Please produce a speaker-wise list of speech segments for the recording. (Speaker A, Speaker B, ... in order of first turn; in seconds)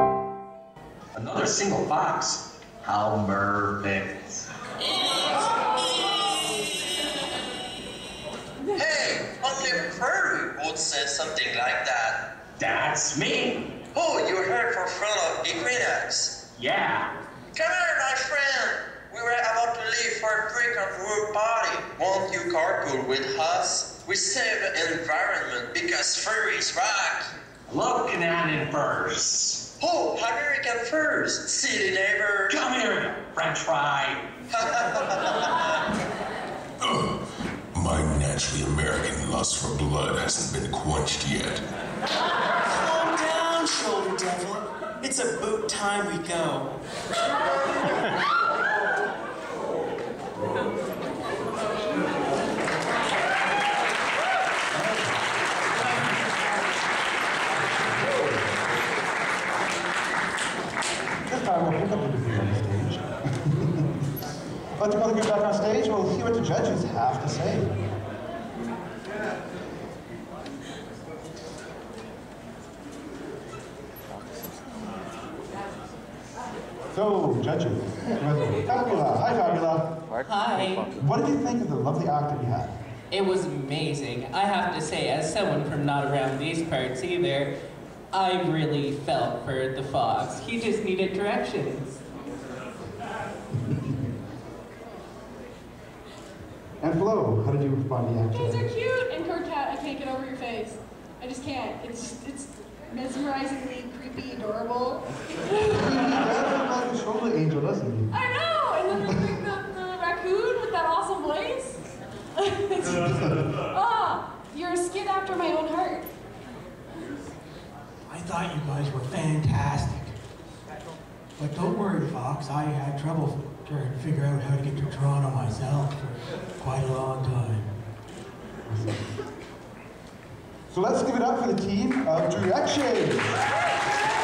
Speaker A: 1.1-4.5, 12.6-13.7, 16.6-17.1, 27.7-29.6, 32.5-34.3
Speaker B: 4.8-7.1, 42.6-46.7
Speaker C: 8.8-12.3, 13.9-16.4, 17.5-27.3, 29.8-32.6, 34.5-35.6
Speaker D: 36.8-37.2, 37.7-41.6
Speaker E: 54.7-55.2, 55.8-56.0, 57.8-58.5, 61.2-63.9, 64.8-67.8, 76.9-80.0, 80.9-82.7, 93.6-94.0, 96.8-98.7, 105.7-108.2, 112.9-113.3, 128.7-129.1, 130.7-133.4
Speaker F: 80.2-80.8, 83.1-87.5, 88.1-92.0
Speaker G: 98.3-105.9, 108.1-111.8, 112.4-116.1
Speaker H: 118.1-120.2, 121.4-127.7